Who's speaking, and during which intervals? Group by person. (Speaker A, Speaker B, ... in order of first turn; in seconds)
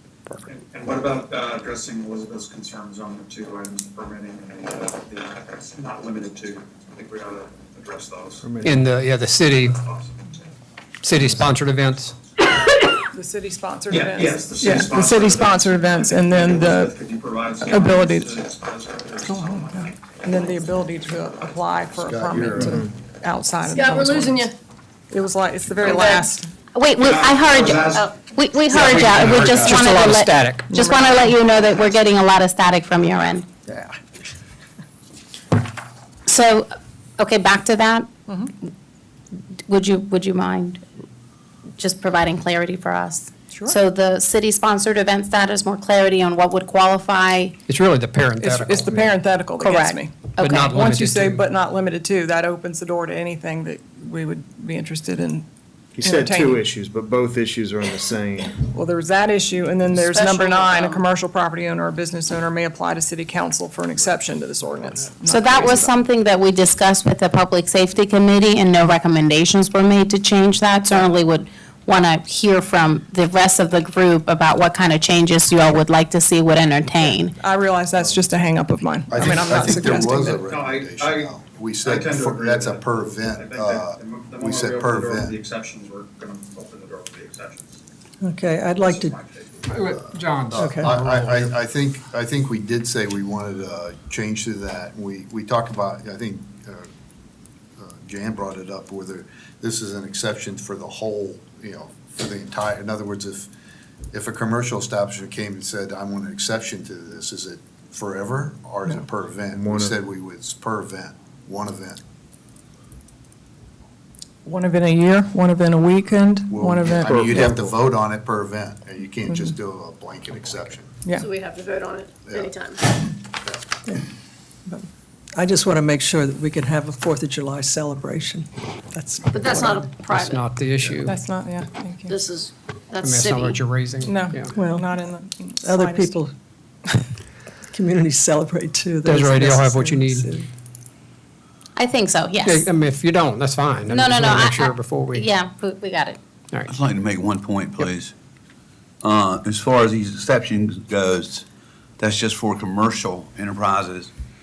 Speaker A: 0.5-8.5, 9.5-10.4, 13.9-20.7, 27.0-28.2, 28.7-29.8, 80.4-87.7, 88.8-89.8
Speaker B: 8.4-8.8, 22.6-22.9, 55.9-58.7, 109.5-110.0
Speaker C: 8.6-9.8, 11.0-12.2, 28.7-30.8, 47.7-49.2, 50.4-51.5, 89.7-91.5, 130.0-131.2, 133.0-134.6, 139.1-140.3, 142.4-145.3
Speaker D: 13.1-16.9, 17.6-18.4, 19.3-24.4, 25.1-26.5, 30.7-31.1, 48.4-50.1, 50.7-55.5, 56.0-56.6, 58.7-65.9, 77.4-80.4, 114.4-117.5, 119.3-119.5, 131.1-132.1, 134.1-136.1
Speaker E: 21.9-22.8, 79.1-85.4, 89.9-96.9, 97.8-103.5, 104.1-112.0, 116.5-120.9, 122.3-122.6, 123.3-123.7
Speaker F: 23.6-24.5, 25.9-26.2, 59.7-61.1, 121.1-122.9, 129.3-130.4, 132.0-133.6
Speaker G: 25.9-33.5, 36.3-38.1, 39.6-40.8, 41.8-47.5, 49.6-50.7, 65.2-77.4, 141.8-142.7, 143.9-146.2
Speaker H: 88.2-89.1, 90.5-90.9, 124.7-129.9, 134.5-134.9, 135.6-136.3, 137.7-140.5
Speaker I: 117.0-117.4, 146.7-148.1, 149.0-151.5, 152.0-154.1